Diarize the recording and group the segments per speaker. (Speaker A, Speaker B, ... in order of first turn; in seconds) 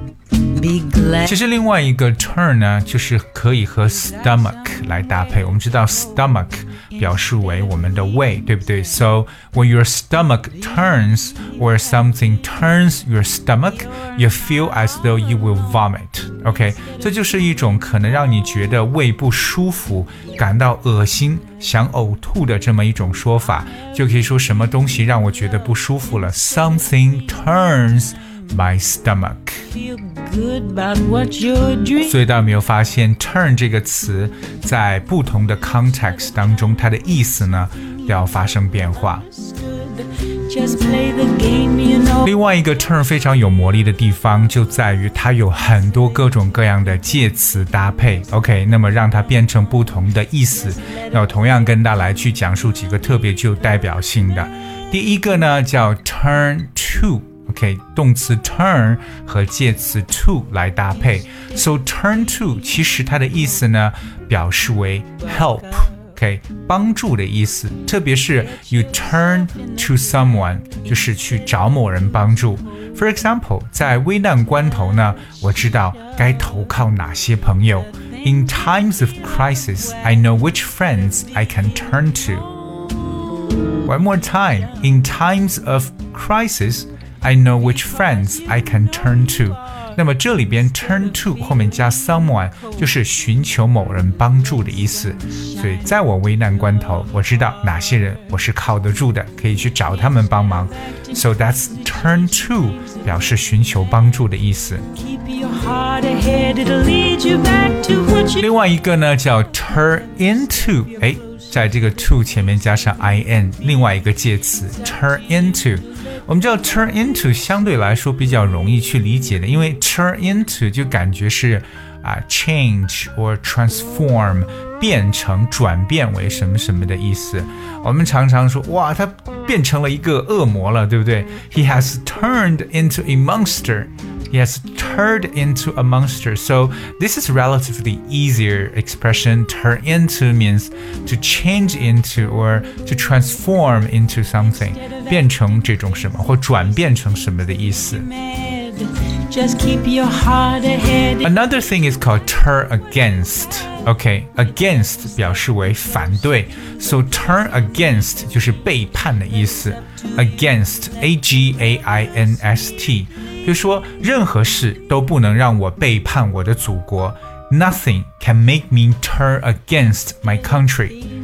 Speaker A: 0.5-1.2, 29.8-32.0, 39.5-42.2, 105.0-108.3, 148.3-151.2
Speaker B: 1.1-29.7, 32.0-39.3, 42.2-82.5, 83.8-104.9, 108.3-148.2, 151.2-171.0